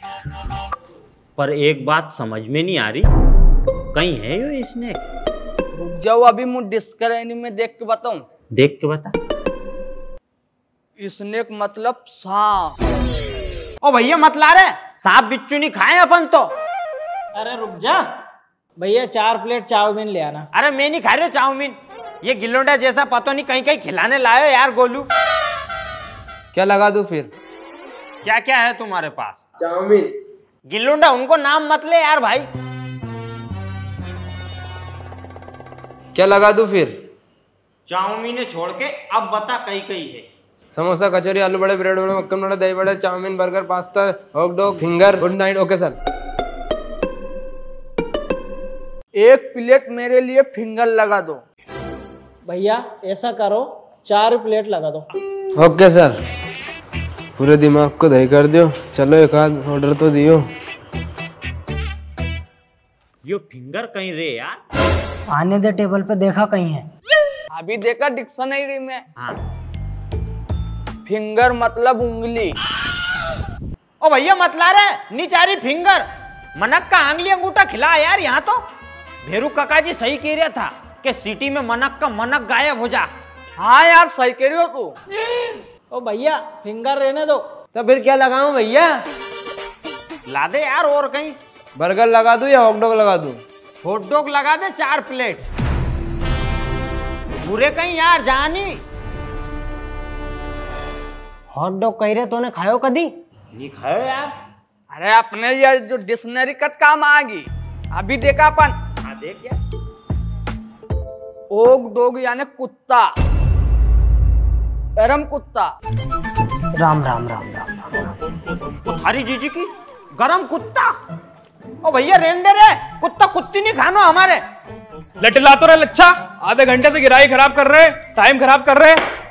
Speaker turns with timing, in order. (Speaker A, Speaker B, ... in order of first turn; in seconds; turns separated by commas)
Speaker A: 1.4-3.1, Speaker A: 3.9-5.0, Speaker B: 5.7-8.2, Speaker A: 8.5-9.1, Speaker B: 11.0-12.8, Speaker A: 13.8-16.5, Speaker C: 17.3-18.0, Speaker C: 18.8-20.4, Speaker A: 20.5-25.1, Speaker D: 26.5-27.3, Speaker A: 28.2-29.4, Speaker D: 29.6-30.1, Speaker A: 30.7-32.5, Speaker D: 36.1-36.9, Speaker A: 37.9-40.2, Speaker D: 40.7-45.9, Speaker B: 49.2-51.4, Speaker C: 52.5-55.0, Speaker D: 55.6-56.1, Speaker D: 57.4-60.5, Speaker A: 63.2-64.6, Speaker E: 65.3-66.8, Speaker B: 67.5-69.0, Speaker B: 71.0-72.5, Speaker A: 74.0-76.0, Speaker A: 76.6-78.6, Speaker A: 79.2-83.1, Speaker B: 83.6-84.9, Speaker C: 85.9-87.4, Speaker D: 87.7-89.0, Speaker A: 90.3-91.3, Speaker D: 91.8-93.4, Speaker A: 93.8-95.4, Speaker A: 97.4-98.8, Speaker E: 101.5-103.1, Speaker A: 103.5-104.3, Speaker B: 104.9-108.7, Speaker A: 109.0-109.5, Speaker B: 111.5-113.1, Speaker B: 115.0-115.7, Speaker E: 116.7-118.1, Speaker A: 118.8-120.9, Speaker A: 121.8-124.4, Speaker F: 125.2-129.0